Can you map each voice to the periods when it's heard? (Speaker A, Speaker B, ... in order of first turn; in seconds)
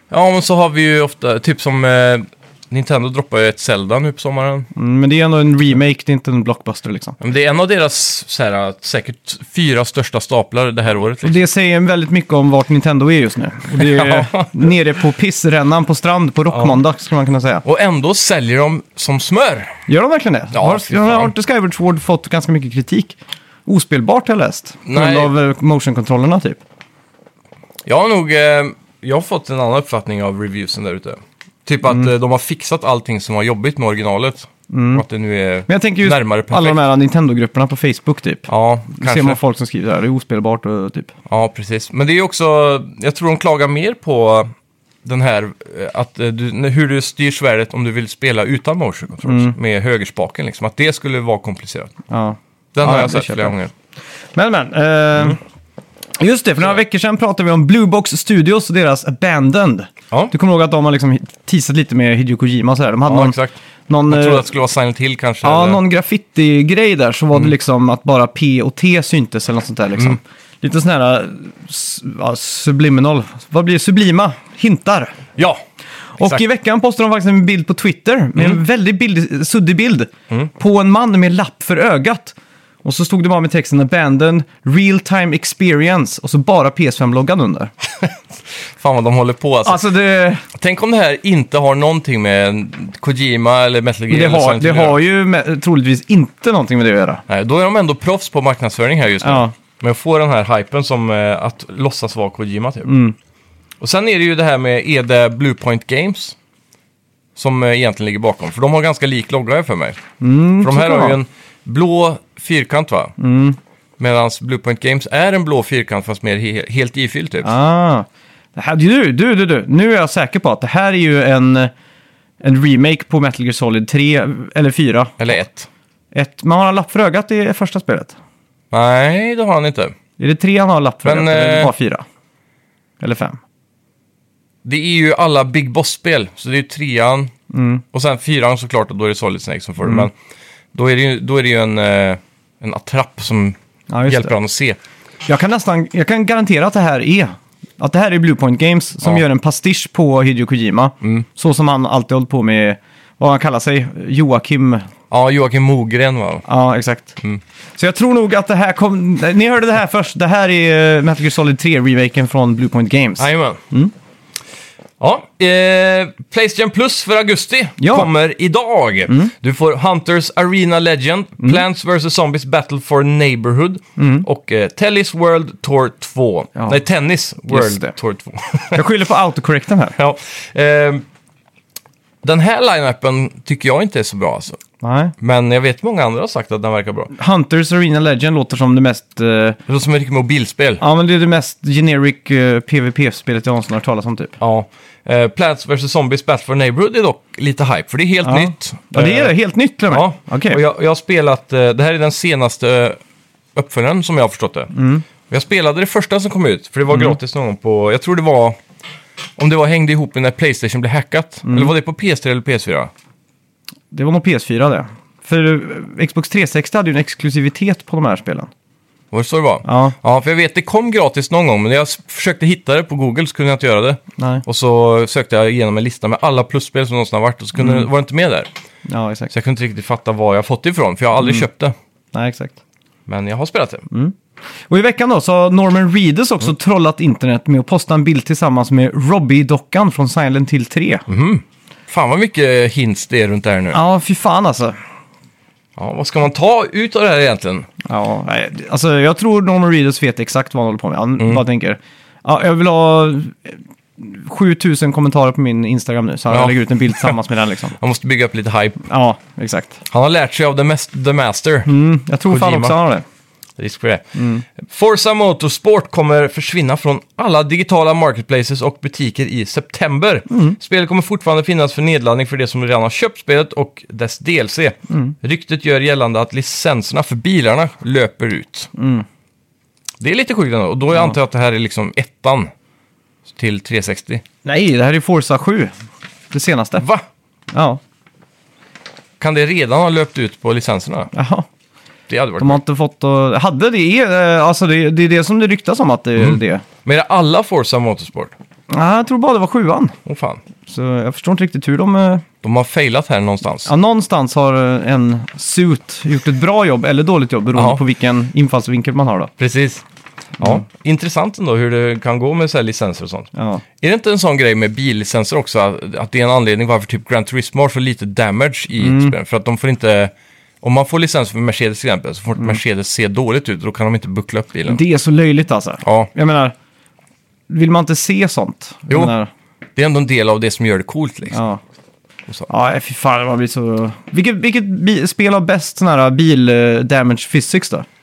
Speaker A: 0.1-4.7, 7.2-11.4, 13.8-14.5, 16.5-16.8, 17.6-19.8, 20.5-21.3, 24.9-25.3, 27.8-36.8, 38.5-39.4, 41.3-44.5, 45.0-51.9, 52.7-53.7, 63.0-63.5, 64.1-65.8, 88.0-89.8, 90.5-95.0, 97.3-102.9, 103.8-106.3, 107.3-110.0, 110.6-113.1, 114.0-117.5, 125.2-125.7, 128.7-129.9, 131.0-131.7, 134.6-137.3, 137.9-140.1, 140.7-143.6, 144.1-144.8, 155.1-156.4, 163.2-163.6, 165.0-178.8, 179.9-181.0, 182.2-184.6, 185.2-187.1, 189.7-190.8, 194.4-199.3, 199.9-203.0, 203.5-204.7, 205.3-208.6, 209.4-212.9, 219.1-228.5, 229.3-231.7, 233.1-233.8, 241.1-243.8, 245.8-247.7, 256.3-257.2, 257.8-258.8, 259.9-261.7, 262.2-262.8, 263.6-278.7, 280.0-282.5, 283.3-284.2, 286.8-287.0, 289.2-291.1, 292.1-292.6, 296.2-298.3, 300.0-300.4, 302.4-303.7, 307.5-307.8, 309.4-309.8, 310.4-313.3, 313.8-324.8, 325.8-326.1, 329.8-331.4
Speaker B: 4.7-7.2, 11.2-17.6, 19.9-26.6, 34.7-35.0, 35.7-41.1, 49.2-49.5, 52.1-53.5, 54.3-55.4, 56.2-63.4, 63.9-64.5, 65.4-75.2, 76.2-87.7, 89.6-90.4, 94.1-97.2, 99.2-99.5, 102.8-103.2, 110.2-111.2, 113.2-113.6, 117.4-121.7, 122.4-125.4, 126.1-128.2, 130.2-132.0, 133.0-133.4, 137.5-137.8, 143.9-144.3, 145.3-154.8, 156.4-157.1, 157.8-163.9, 167.8-168.1, 174.0-174.2, 177.5-177.9, 178.7-179.9, 184.8-185.1, 187.1-189.6, 190.8-194.4, 198.2-200.6, 204.7-205.1, 206.9-207.2, 211.4-211.7, 213.9-218.5, 219.6-219.9, 224.2-224.4, 227.6-227.9, 228.8-229.3, 232.1-232.6, 234.7-241.1, 243.7-244.8, 247.8-257.8, 258.9-259.8, 261.6-263.0, 264.1-264.4, 270.3-270.6, 274.9-275.1, 278.7-279.0, 284.4-285.7, 286.3-286.9, 287.5-287.8, 291.1-291.4, 292.4-296.6, 298.7-300.0, 300.6-302.2, 303.6-309.3, 310.4-310.6, 313.3-313.6, 318.8-319.1, 324.7-326.5, 327.5-329.3, 331.3-331.6, 332.5-337.9